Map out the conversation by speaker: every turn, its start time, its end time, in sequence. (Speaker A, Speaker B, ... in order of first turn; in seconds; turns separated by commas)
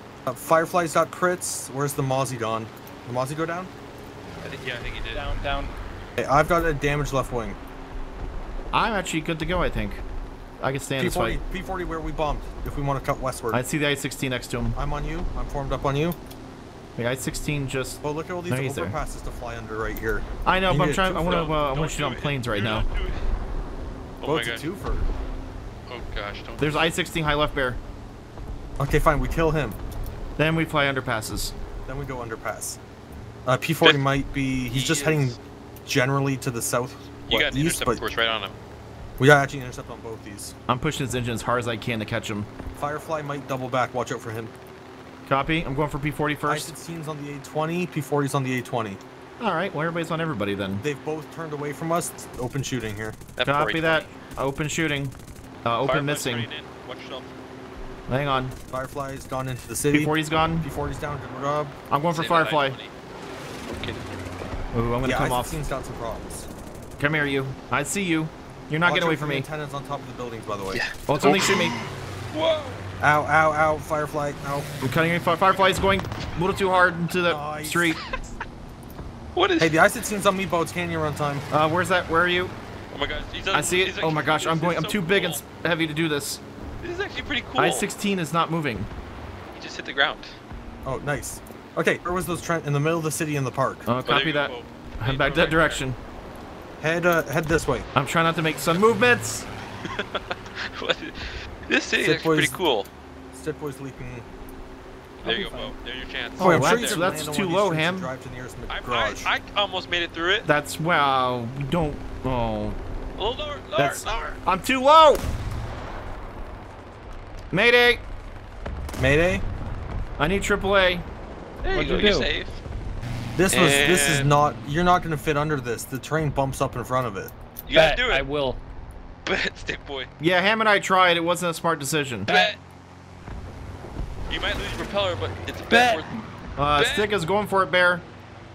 Speaker A: 0.2-3.7, Speaker B: 4.4-5.2, Speaker C: 5.1-5.7, Speaker A: 6.2-7.6, Speaker D: 8.7-10.0, Speaker D: 10.6-11.4, Speaker A: 10.9-13.6, Speaker D: 13.5-14.8, Speaker A: 14.8-16.2, Speaker D: 17.0-19.0, Speaker A: 18.0-21.5, Speaker D: 20.4-22.9, Speaker B: 21.2-23.2, Speaker B: 24.2-24.7, Speaker A: 24.2-25.1, Speaker B: 25.9-26.9, Speaker D: 26.6-27.8, Speaker A: 28.8-29.8, Speaker D: 30.4-31.5, Speaker A: 31.9-32.8, Speaker A: 33.5-38.0, Speaker B: 33.8-34.1, Speaker B: 34.7-35.4, Speaker B: 37.2-38.5, Speaker A: 39.2-40.5, Speaker D: 40.7-42.5, Speaker A: 42.7-44.5, Speaker D: 45.2-46.7, Speaker A: 46.4-49.0, Speaker D: 49.4-50.8, Speaker A: 50.8-53.2, Speaker B: 53.4-54.1, Speaker D: 53.4-56.5, Speaker B: 55.8-57.3, Speaker D: 58.1-58.5, Speaker A: 58.7-61.7, Speaker D: 59.9-60.7, Speaker D: 61.9-62.8, Speaker B: 62.1-62.9, Speaker B: 63.7-64.1, Speaker D: 64.7-65.7, Speaker A: 65.0-66.5, Speaker D: 67.0-69.5, Speaker A: 68.8-70.8, Speaker B: 70.7-72.8, Speaker D: 71.1-71.8, Speaker A: 73.0-74.7, Speaker D: 74.8-78.0, Speaker A: 77.2-78.2, Speaker B: 79.3-79.8, Speaker A: 79.6-81.5, Speaker D: 81.5-82.5, Speaker B: 82.9-85.4, Speaker D: 83.5-86.4, Speaker B: 86.8-87.9, Speaker D: 87.6-88.9, Speaker B: 89.5-90.4, Speaker A: 90.8-93.9, Speaker D: 93.8-96.0, Speaker B: 94.0-95.8, Speaker A: 96.8-97.9, Speaker D: 97.9-99.5, Speaker B: 99.8-102.9, Speaker A: 102.0-102.6, Speaker A: 103.3-104.2, Speaker B: 105.2-107.0, Speaker C: 105.2-105.7, Speaker A: 106.4-109.3, Speaker D: 106.4-108.1, Speaker B: 108.7-110.5, Speaker D: 110.4-112.8, Speaker B: 113.2-114.4, Speaker D: 113.8-115.3, Speaker D: 117.5-118.0, Speaker A: 119.0-119.4, Speaker D: 120.2-121.0, Speaker B: 121.6-122.6, Speaker C: 121.7-122.3, Speaker A: 123.3-127.3, Speaker B: 123.5-124.3, Speaker B: 127.7-128.2, Speaker C: 127.7-128.6, Speaker B: 129.2-130.1, Speaker D: 130.2-132.3, Speaker C: 132.3-132.5, Speaker B: 132.3-132.6, Speaker B: 134.3-136.1, Speaker C: 135.7-136.3, Speaker D: 136.6-138.1, Speaker B: 136.7-137.1